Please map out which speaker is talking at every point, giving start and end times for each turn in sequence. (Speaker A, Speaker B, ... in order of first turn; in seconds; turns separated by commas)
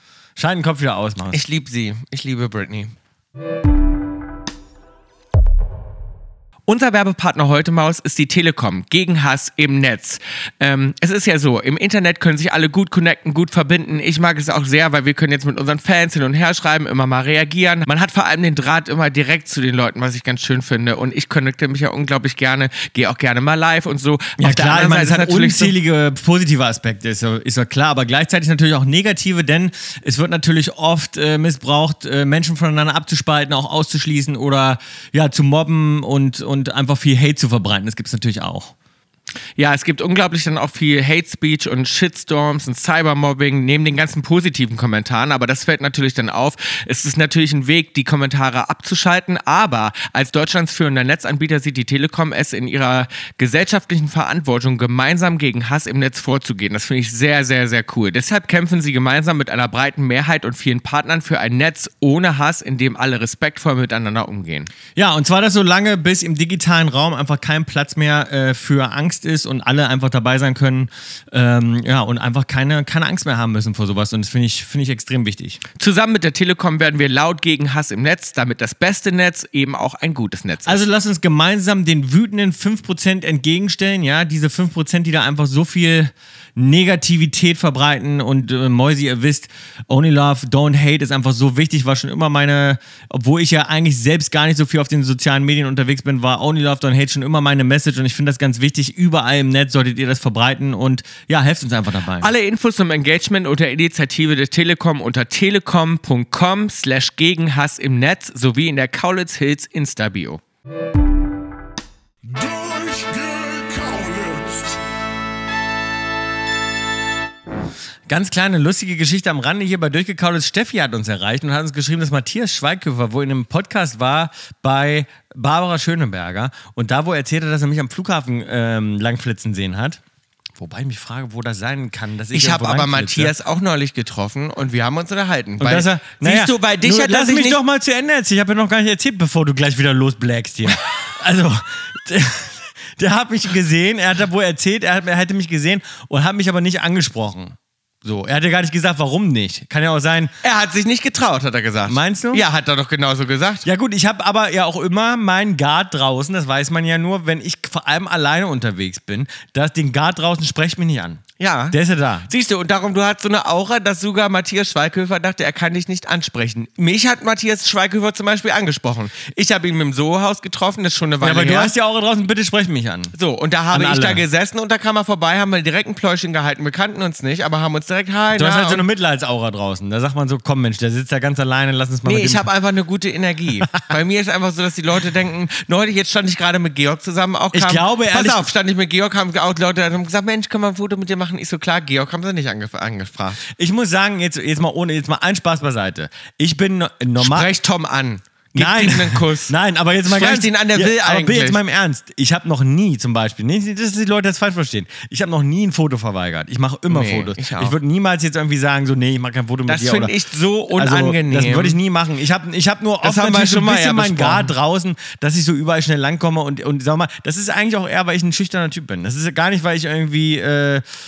Speaker A: 0.4-1.4, Speaker B: 1.3-2.9, Speaker B: 6.7-25.8, Speaker A: 24.4-38.7, Speaker B: 39.6-64.7, Speaker A: 64.9-75.6, Speaker B: 75.8-80.8, Speaker A: 80.6-102.3, Speaker B: 102.2-110.4, Speaker C: 112.2-114.8, Speaker A: 118.1-130.0, Speaker A: 130.5-133.3, Speaker B: 132.3-137.6, Speaker A: 135.6-150.3, Speaker B: 150.4-153.6, Speaker A: 151.9-152.4, Speaker A: 153.6-162.3, Speaker B: 161.4-171.7, Speaker A: 171.2-173.1, Speaker B: 173.1-178.8, Speaker A: 173.7-174.2, Speaker A: 178.3-182.5, Speaker B: 182.0-193.4, Speaker A: 187.5-188.5, Speaker A: 193.5-197.5, Speaker B: 197.2-201.6, Speaker A: 198.5-210.1, Speaker B: 206.9-207.8, Speaker B: 209.7-211.8, Speaker A: 210.7-220.8, Speaker B: 213.0-214.5